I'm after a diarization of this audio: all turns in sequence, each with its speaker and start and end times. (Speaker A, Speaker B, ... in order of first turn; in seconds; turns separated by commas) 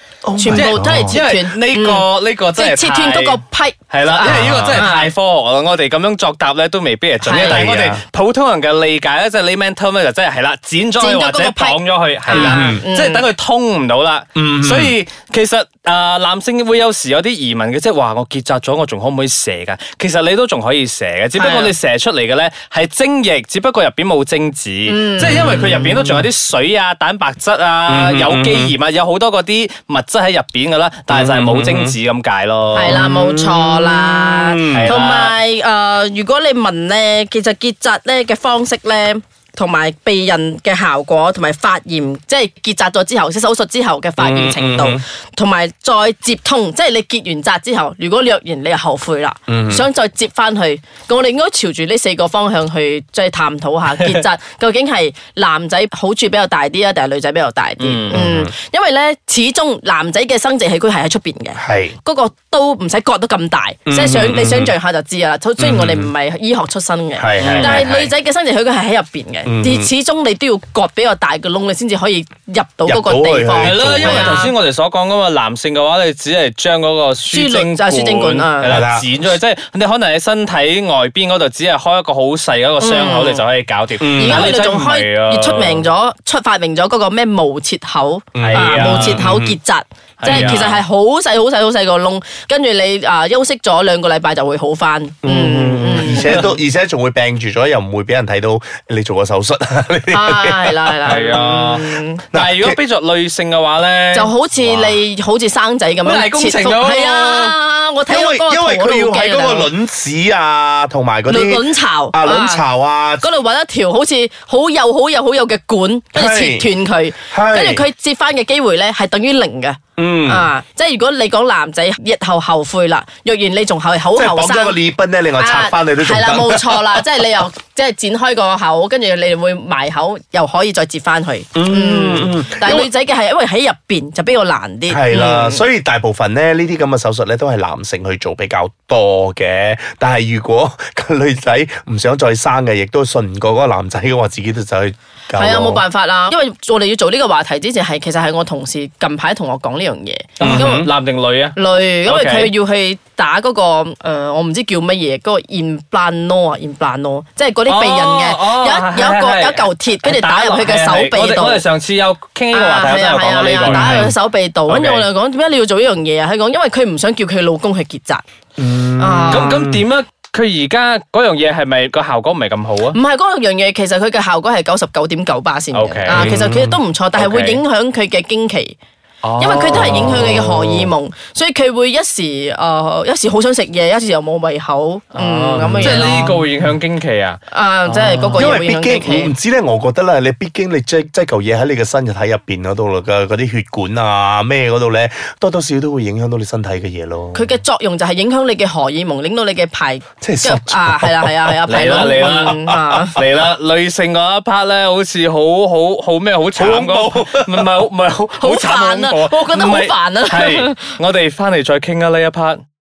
Speaker A: 0.2-1.2, Speaker B: 0.3-5.1, Speaker C: 0.5-33.0, Speaker A: 4.2-4.8, Speaker B: 7.2-7.6, Speaker A: 7.3-8.0, Speaker B: 11.0-13.2, Speaker A: 12.3-12.8, Speaker A: 14.3-14.9, Speaker B: 21.4-21.7, Speaker B: 24.9-25.6, Speaker A: 25.2-26.3, Speaker A: 27.9-28.7, Speaker A: 31.1-31.9, Speaker B: 32.7-74.5, Speaker A: 32.8-34.9, Speaker C: 34.7-35.4, Speaker A: 44.2-45.0, Speaker A: 49.5-49.9, Speaker C: 53.9-54.2, Speaker C: 57.8-58.3, Speaker A: 58.1-58.5, Speaker A: 61.6-62.0, Speaker A: 63.9-64.7, Speaker A: 65.6-66.1, Speaker A: 67.2-67.9, Speaker C: 67.4-68.1, Speaker A: 69.5-69.9, Speaker A: 72.8-74.4, Speaker C: 73.6-85.9, Speaker B: 77.3-78.8, Speaker A: 78.6-79.0, Speaker B: 82.8-83.4, Speaker A: 84.0-84.5, Speaker B: 84.2-96.4, Speaker A: 88.3-89.6, Speaker C: 88.4-89.2, Speaker C: 90.2-90.8, Speaker A: 90.2-90.7, Speaker A: 95.2-101.3, Speaker C: 96.0-96.4, Speaker B: 100.1-102.2, Speaker C: 101.1-104.3, Speaker A: 102.3-102.8, Speaker B: 104.1-109.7, Speaker A: 104.5-105.0, Speaker C: 106.0-107.6, Speaker A: 108.1-113.3, Speaker B: 111.3-112.6, Speaker B: 113.2-124.8, Speaker A: 116.1-116.7, Speaker A: 117.2-117.8, Speaker A: 120.0-120.5, Speaker A: 124.1-127.0, Speaker B: 125.4-135.6, Speaker A: 131.5-132.9, Speaker A: 134.9-145.8, Speaker B: 145.3-150.9, Speaker A: 150.4-150.9, Speaker C: 150.4-152.5, Speaker B: 151.5-161.6, Speaker C: 157.7-164.1, Speaker B: 162.5-168.2, Speaker A: 163.6-164.1, Speaker C: 164.7-165.0, Speaker A: 168.6-169.8, Speaker B: 169.0-169.6, Speaker C: 169.3-173.0, Speaker B: 172.9-178.8, Speaker C: 175.7-176.4, Speaker A: 176.1-176.8, Speaker C: 177.2-177.6, Speaker C: 179.2-180.5, Speaker B: 179.4-186.4, Speaker A: 179.7-180.9, Speaker C: 185.1-188.5, Speaker A: 185.6-186.3, Speaker B: 187.5-189.3, Speaker A: 188.3-197.5, Speaker B: 197.3-203.2, Speaker A: 200.2-203.2, Speaker C: 201.7-202.6, Speaker C: 203.1-212.6, Speaker A: 206.6-207.7, Speaker B: 208.4-211.0